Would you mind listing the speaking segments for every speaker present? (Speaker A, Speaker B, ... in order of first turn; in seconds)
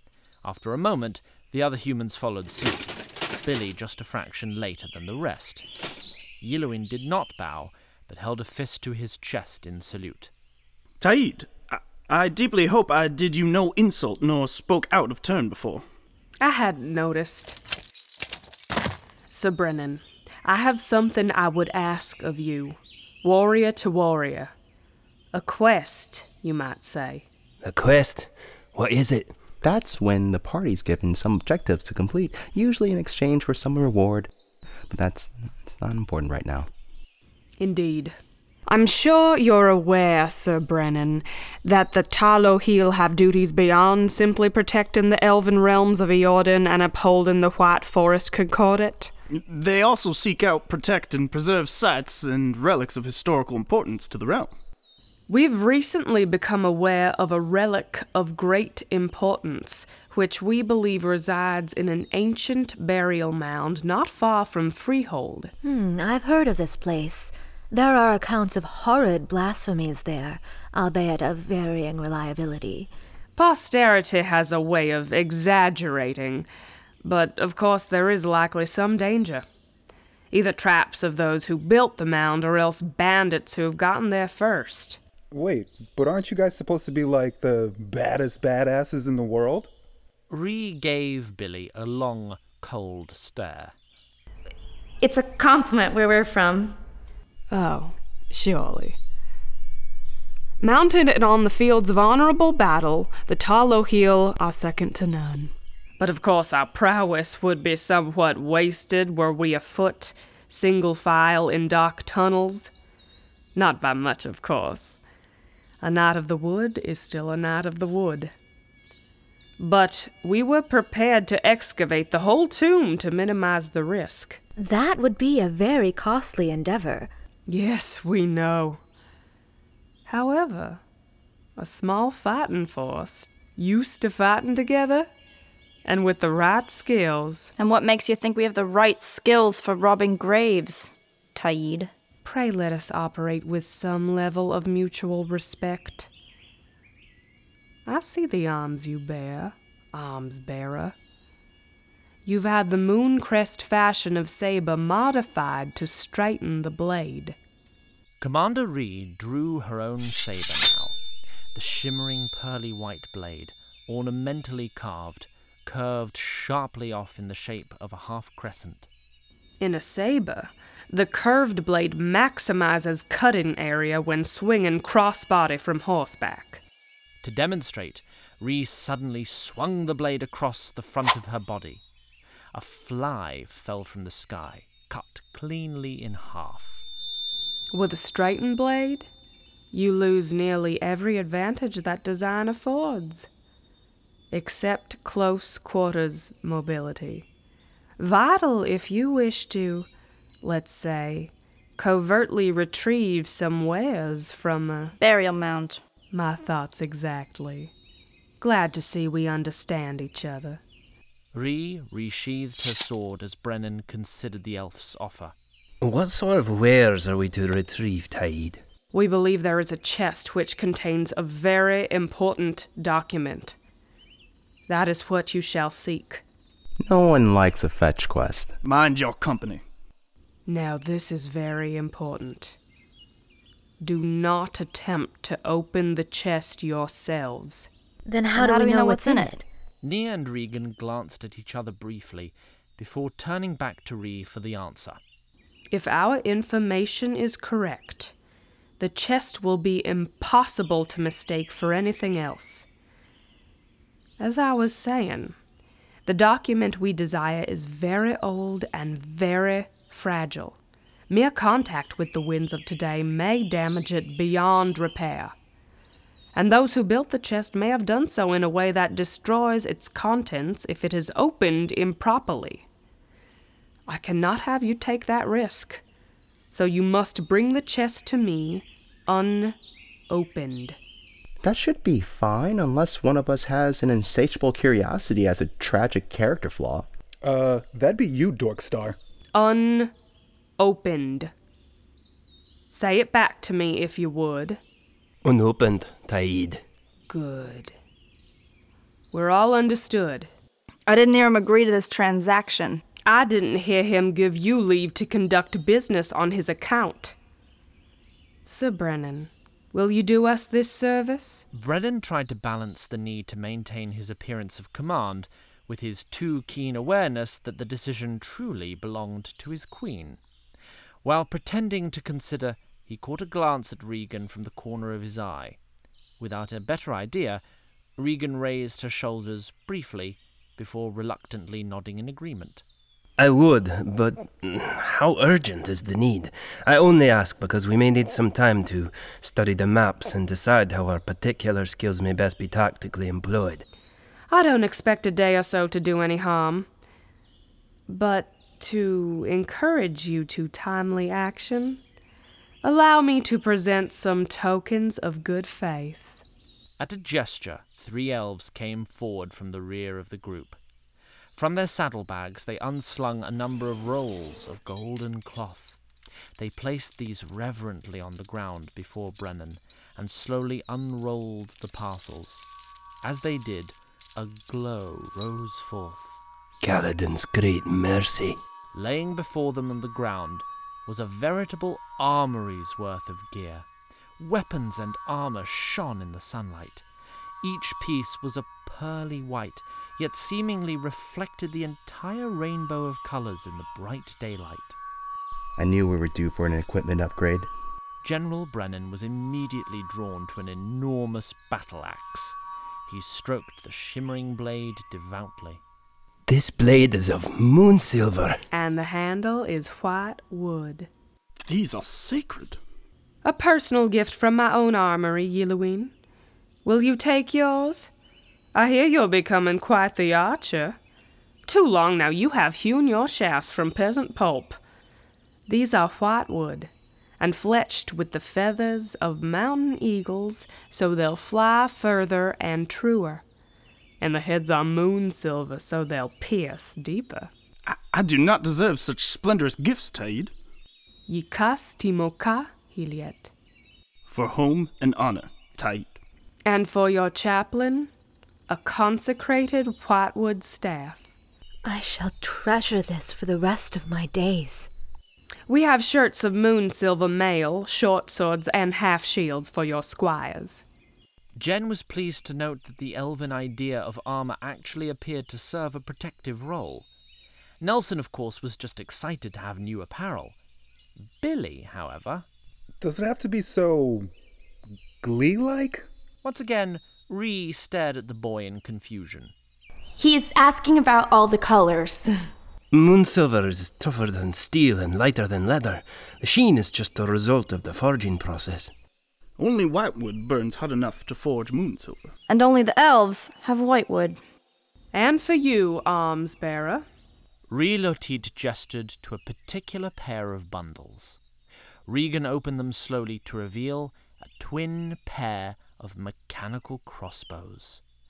Speaker A: 0.4-2.9, 3.5-5.7, 6.4-10.3, 90.3-93.7, 158.2-161.0, 161.6-168.9, 177.2-181.8, 182.5-186.8, 211.3-215.3, 239.8-245.0, 311.5-320.2, 321.0-325.6, 326.2-327.4, 328.0-332.6, 356.8-360.6, 361.4-365.8, 366.4-372.5, 373.0-376.2, 378.7-383.7, 384.2-386.8, 387.4-394.8, 398.0-405.6, 461.4-466.9, 467.6-470.4, 471.2-472.3, 476.2-479.3, 497.5-501.2, 501.9-507.8
Speaker B: 11.0-15.8, 49.3-54.5, 228.6-229.6, 411.4-412.6, 437.7-440.3, 444.1-446.0, 489.4-492.1
Speaker C: 16.4-17.6, 19.3-24.5, 25.3-27.2, 37.6-38.2, 38.7-49.1, 55.3-65.5, 73.4-76.5, 77.0-79.4, 80.3-85.0, 97.5-99.0, 100.6-112.7, 113.5-115.0, 115.8-118.3, 119.6-124.4, 127.5-128.8, 130.1-130.8, 131.6-135.1, 135.8-137.5, 142.2-146.1, 147.9-151.0, 152.2-157.4, 169.6-176.6, 187.7-189.1, 189.7-193.3, 194.3-197.3, 198.0-199.9, 200.4-205.0, 206.1-207.7, 208.4-210.6, 218.9-223.6, 224.7-226.2, 230.5-232.6, 233.8-237.7, 245.7-248.1, 248.8-252.7, 254.2-255.4, 256.1-260.6, 261.1-265.3, 266.4-272.7, 273.9-275.8, 276.5-279.6, 280.1-280.8, 289.3-289.9, 290.6-291.3, 292.7-294.6, 297.1-297.8, 299.1-300.3, 303.1-307.1, 308.5-311.4, 344.3-346.7, 347.9-351.8, 352.6-356.2, 408.5-410.9, 413.2-415.9, 416.6-417.9, 418.6-420.8, 421.4-424.6, 425.5-433.2, 434.0-437.3, 441.1-443.3, 446.5-447.9, 448.5-451.1, 455.5-460.6, 494.9-496.9
Speaker D: 27.6-29.3, 215.8-218.6, 295.2-296.6, 333.2-343.6, 376.6-378.4, 406.3-408.4, 482.7-488.7
Speaker E: 29.6-34.3, 34.9-36.7, 226.8-228.6, 281.4-286.9, 395.6-397.5
Speaker F: 65.6-72.9, 124.6-127.1, 238.1-239.4, 451.6-454.7
Speaker G: 85.3-89.7, 287.2-289.0, 472.8-474.1, 475.0-475.9
Speaker H: 95.0-96.8, 480.0-482.1
Speaker I: 137.6-141.9, 205.0-205.8, 238.4-239.4, 300.9-302.8, 492.3-494.2